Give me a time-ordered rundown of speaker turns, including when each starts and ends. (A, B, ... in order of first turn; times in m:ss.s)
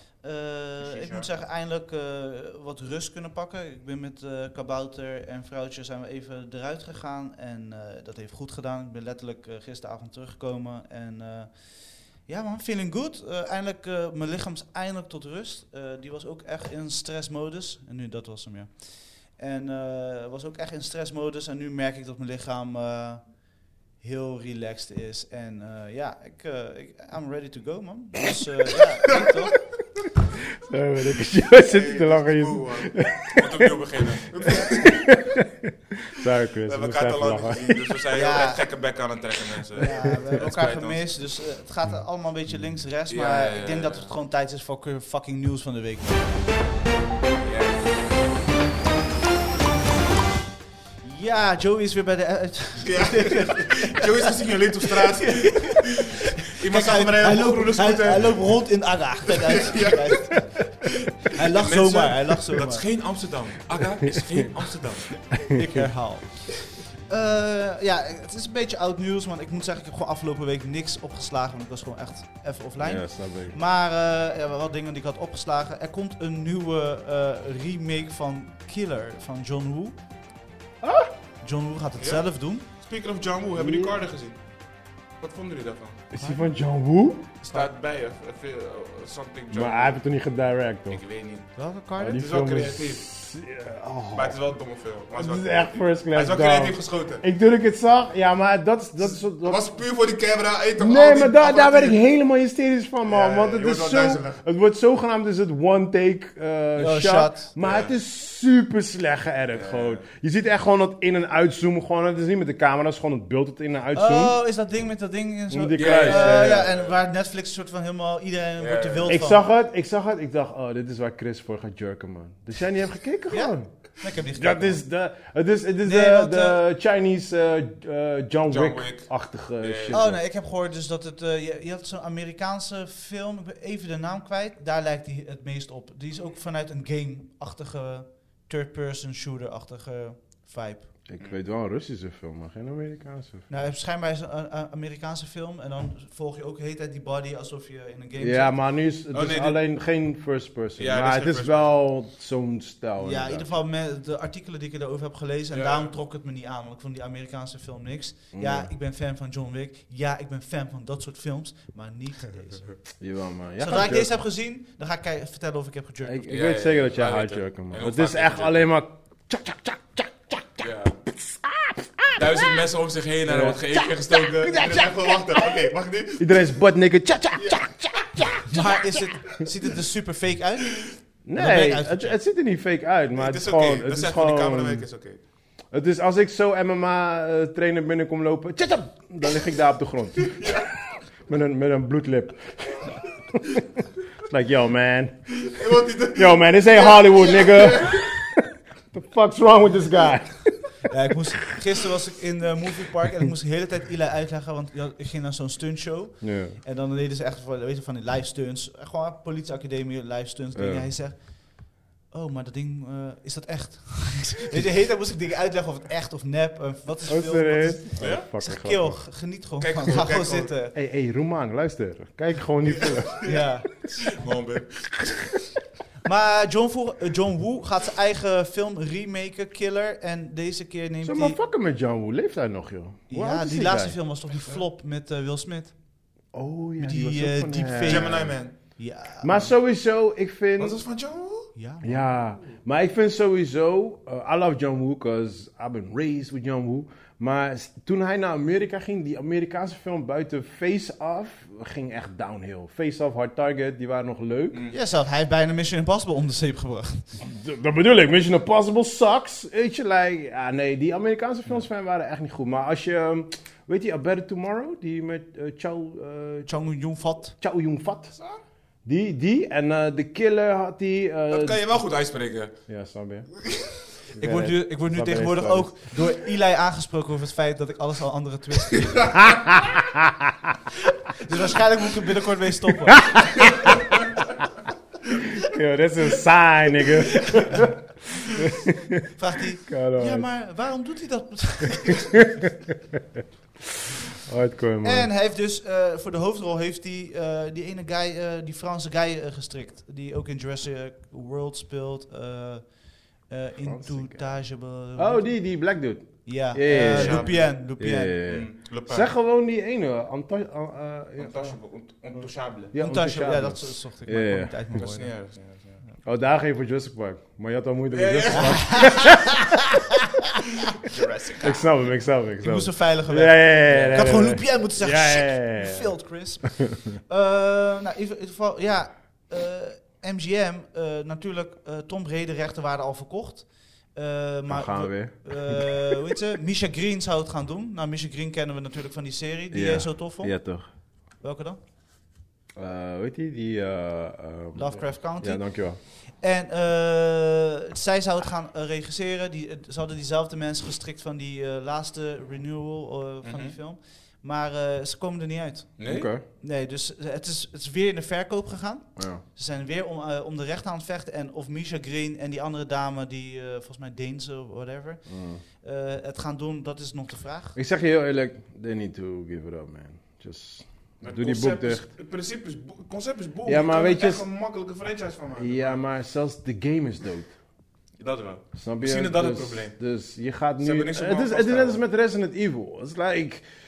0:00.2-0:23.4 A
0:00.8-0:01.3 B
0:24.0-0:29.6 A
0:30.6-0:38.0 C
0:31.6-0:35.3 B
0:36.6-0:41.1 B
0:38.1-0:38.6 A
0:39.8-0:46.5 A
0:43.1-0:44.1 B
0:47.4-0:48.4 B
0:51.0-0:54.3 A
0:52.8-0:58.6 B
0:54.8-1:02.9 A
0:59.3-1:05.4 B
1:04.0-1:04.5 C
1:05.4-1:05.8 C
1:05.5-1:20.0 A
1:12.8-1:13.6 C
1:20.8-1:21.1 C
1:21.4-1:22.7 A
1:22.0-1:24.4 B
1:23.6-1:24.0 C
1:25.2-1:26.0 B
1:26.1-1:27.3 C
1:26.2-1:26.5 A
1:27.4-1:27.7 A
1:27.5-1:30.0 B
1:29.5-1:31.0 C
1:30.9-1:31.5 B
1:31.6-1:32.2 A
1:32.0-1:34.4 C
1:32.1-1:33.1 B
1:34.1-1:37.2 B
1:35.1-1:39.7 C
1:39.0-1:42.0 B
1:40.8-1:54.4 C
1:43.0-1:44.4 B
1:46.8-1:47.5 A
1:47.6-1:47.9 B
1:49.5-1:50.0 B
1:53.9-1:59.4 A
1:55.5-1:56.7 C
1:55.8-1:57.0 B
1:58.6-1:59.2 B
1:59.1-2:03.7 C
2:03.3-2:04.8 A
2:04.4-2:10.2 C
2:05.8-2:06.6 A
2:08.5-2:10.0 B
2:09.9-2:20.9 A
2:21.1-2:23.5 C
2:23.5-2:28.6 A
2:28.2-2:33.6 C
2:29.1-2:29.6 B
2:30.8-2:31.7 B
2:33.0-2:42.8 A
2:35.5-2:35.9 B
2:38.3-2:38.7 C
2:43.0-2:44.1 C
2:43.6-2:46.2 A
2:46.0-2:52.7 C
2:46.3-2:48.7 B
2:50.6-2:51.0 B
2:52.1-2:56.6 B
2:53.2-2:55.6 C
2:56.2-2:59.1 C
2:57.4-2:58.4 B
2:58.5-3:02.2 A
3:01.2-3:04.8 C
3:03.2-3:05.2 B
3:05.7-3:10.7 C
3:10.3-3:10.7 B
3:11.3-3:15.4 C
3:15.4-3:18.1 B
3:16.1-3:20.7 C
3:20.8-3:40.7 A
3:26.2-3:26.6 C
3:30.5-3:30.9 C
3:37.1-3:39.0 C
3:38.0-3:38.3 B
3:39.6-3:40.5 B
3:40.7-3:43.2 C
3:42.8-3:43.4 B
3:43.2-3:44.0 A
3:44.0-3:45.5 B
3:46.0-3:51.4 A
3:51.0-3:54.0 C
3:53.1-3:55.8 A
3:56.3-3:58.3 C
3:56.8-3:59.5 A
3:57.8-3:58.6 B
3:59.2-4:00.8 C
4:00.6-4:01.5 B
4:01.6-4:02.1 A
4:01.8-4:14.6 C
4:14.5-4:14.8 B
4:14.7-4:17.1 A
4:17.2-4:26.5 C
4:26.5-4:27.4 A
4:27.4-4:28.1 C
4:28.8-4:31.6 C
4:31.3-4:32.6 B
4:32.7-4:33.3 C
4:33.4-4:33.8 B
4:34.2-4:35.8 C
4:34.2-4:39.3 A
4:39.2-4:40.5 C
4:41.1-4:43.8 A
4:43.0-4:43.5 C
4:45.3-4:49.1 C
4:47.1-4:47.7 A
4:49.1-4:52.3 A
4:49.7-4:50.3 C
4:54.3-4:55.1 C
4:54.8-5:05.3 A
5:03.6-5:04.4 C
5:05.0-5:11.6 C
5:06.2-5:08.2 A
5:06.7-5:07.6 B
5:08.2-5:09.1 B
5:11.2-5:12.7 B
5:12.7-5:14.8 C
5:12.7-5:15.1 A
5:14.8-5:15.8 B
5:16.0-5:19.8 C
5:17.9-5:19.2 B
5:18.3-5:19.6 A
5:20.7-5:21.7 B
5:21.4-5:25.9 C
5:22.4-5:40.4 A
5:23.7-5:24.2 B
5:34.5-5:35.8 C
5:39.5-5:40.7 C
5:41.2-5:41.6 A
5:42.6-5:45.8 C
5:44.6-6:05.0 A
5:53.2-5:53.6 B
5:55.8-5:56.1 B
5:55.9-5:56.2 C
5:59.0-5:59.2 C
6:05.1-6:05.4 C
6:05.6-6:07.6 A
6:07.6-6:11.9 C
6:11.0-6:15.8 B
6:13.5-6:14.2 C
6:15.4-6:17.3 C
6:18.0-6:19.8 B
6:18.6-6:23.4 C
6:20.6-6:21.8 B